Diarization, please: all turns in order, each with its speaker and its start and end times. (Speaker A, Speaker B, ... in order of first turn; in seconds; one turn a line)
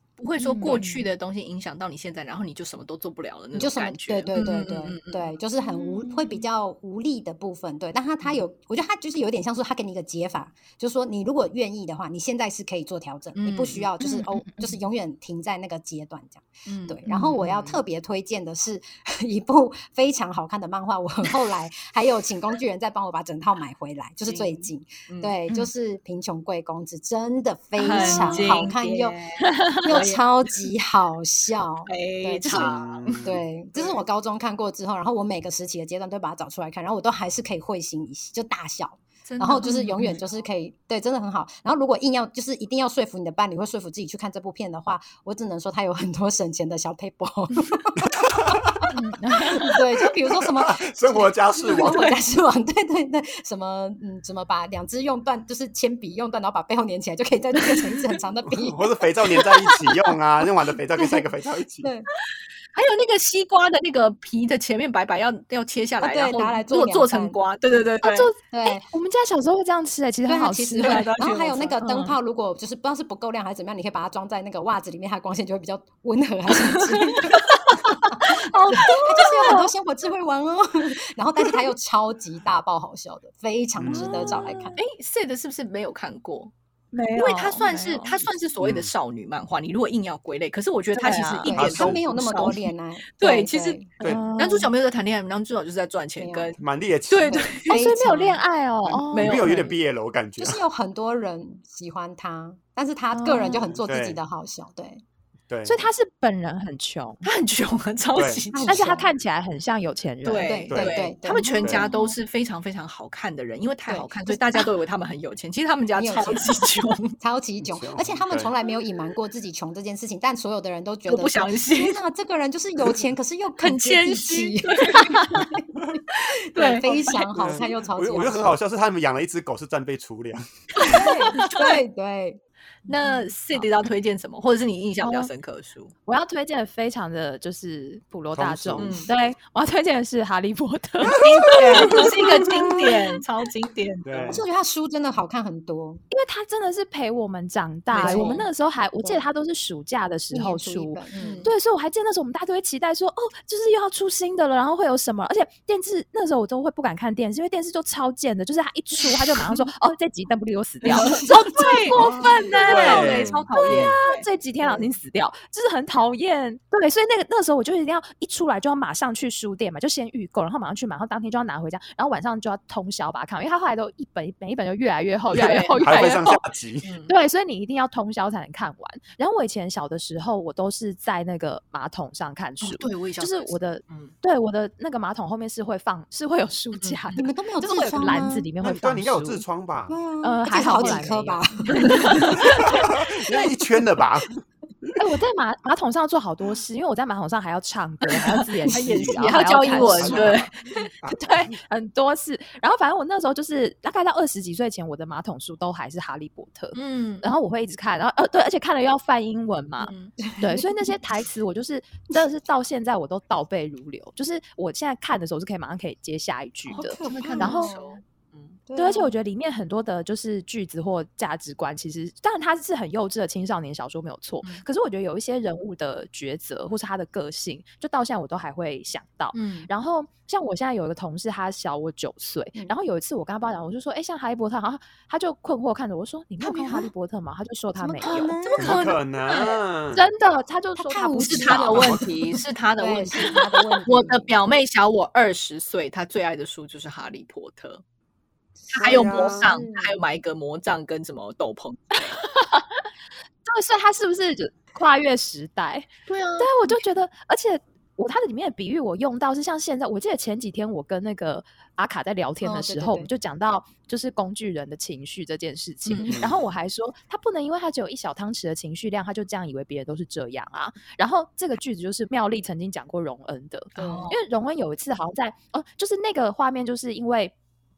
Speaker A: 0.2-5.4
Speaker B: 0.4-1.1
Speaker C: 3.5-29.2
Speaker B: 5.6-6.5
Speaker A: 13.3-13.9
Speaker B: 14.0-14.8
Speaker A: 16.6-17.0
Speaker B: 17.1-17.8
Speaker A: 24.2-25.4
Speaker A: 27.8-30.6
Speaker B: 27.8-28.7
Speaker B: 29.4-29.9
Speaker C: 29.8-48.9
Speaker A: 31.9-34.0
Speaker D: 32.5-33.4
Speaker A: 39.2-40.3
Speaker B: 39.6-40.2
Speaker D: 48.0-48.9
Speaker B: 48.9-49.8
Speaker C: 49.5-58.9
Speaker D: 50.4-52.1
Speaker A: 51.7-52.1
Speaker D: 58.5-61.9
Speaker A: 59.4-59.8
Speaker C: 61.0-61.2
Speaker C: 61.8-62.1
Speaker A: 62.7-68.3
Speaker C: 66.0-67.4
Speaker B: 68.0-71.1
Speaker C: 68.5-68.8
Speaker C: 70.3-84.8
Speaker A: 70.8-72.0
Speaker B: 71.8-72.1
Speaker A: 76.7-77.6
Speaker B: 78.5-78.8
Speaker A: 78.6-78.9
Speaker B: 79.4-79.7
Speaker D: 83.8-84.5
Speaker B: 83.9-84.8
Speaker A: 84.8-86.5
Speaker B: 86.9-88.2
Speaker A: 87.2-97.8
Speaker D: 88.6-88.9
Speaker B: 90.9-91.5
Speaker C: 91.4-93.9
Speaker D: 91.5-92.0
Speaker B: 94.0-94.7
Speaker C: 96.2-96.5
Speaker D: 96.6-97.5
Speaker C: 97.2-98.4
Speaker B: 97.7-99.7
Speaker A: 99.1-99.7
Speaker D: 99.1-100.6
Speaker C: 100.4-105.0
Speaker B: 103.1-103.6
Speaker D: 103.7-104.2
Speaker D: 105.5-105.9
Speaker B: 105.6-107.2
Speaker A: 107.2-108.8
Speaker D: 108.1-108.4
Speaker C: 108.5-109.1
Speaker B: 108.7-110.7
Speaker A: 110.2-117.1
Speaker C: 110.4-111.9
Speaker D: 110.7-111.0
Speaker B: 111.4-112.1
Speaker D: 111.6-111.9
Speaker C: 113.9-114.7
Speaker C: 116.0-116.6
Speaker C: 117.1-128.6
Speaker D: 117.6-118.5
Speaker A: 121.1-122.0
Speaker A: 123.6-125.4
Speaker A: 126.1-127.3
Speaker D: 127.3-130.4
Speaker A: 130.8-131.8
Speaker B: 130.8-131.4
Speaker C: 130.8-132.4
Speaker A: 132.9-135.9
Speaker B: 133.0-133.7
Speaker B: 135.0-135.3
Speaker B: 136.1-142.8
Speaker D: 138.3-139.1
Speaker A: 138.8-139.1
Speaker A: 141.1-144.4
Speaker C: 141.7-143.0
Speaker D: 144.0-144.4
Speaker C: 144.3-146.0
Speaker B: 146.1-176.4
Speaker A: 147.9-148.4
Speaker C: 147.9-148.5
Speaker C: 150.3-151.5
Speaker A: 151.1-151.5
Speaker A: 160.8-164.2
Speaker C: 160.9-161.3
Speaker D: 161.9-163.9
Speaker A: 175.3-176.2
Speaker D: 175.8-176.9
Speaker A: 176.8-177.1
Speaker B: 177.1-189.4
Speaker A: 182.6-184.1
Speaker A: 186.8-187.1
Speaker C: 187.2-188.5
Speaker D: 188.6-189.9
Speaker C: 189.9-192.9
Speaker B: 190.2-192.8
Speaker A: 191.8-192.3
Speaker D: 192.4-194.9
Speaker B: 195.0-200.4
Speaker A: 198.1-200.5
Speaker D: 199.7-201.6
Speaker B: 201.1-217.7
Speaker A: 206.7-207.3
Speaker A: 209.8-210.1
Speaker C: 210.2-210.7
Speaker C: 216.7-218.0
Speaker A: 216.7-218.6
Speaker C: 218.7-219.1
Speaker B: 218.8-238.4
Speaker A: 229.3-229.7
Speaker C: 236.4-236.9
Speaker C: 237.8-239.4
Speaker A: 238.0-239.6
Speaker D: 238.6-240.1
Speaker B: 239.9-242.4
Speaker C: 240.8-242.2
Speaker A: 241.2-247.8
Speaker C: 242.8-244.3
Speaker C: 248.7-249.9
Speaker A: 248.7-252.2
Speaker D: 248.8-249.6
Speaker B: 252.2-252.8
Speaker B: 253.4-277.3
Speaker A: 256.1-256.8
Speaker C: 262.4-263.1
Speaker A: 265.9-266.1
Speaker D: 266.1-266.4
Speaker A: 273.7-274.2
Speaker C: 273.8-274.1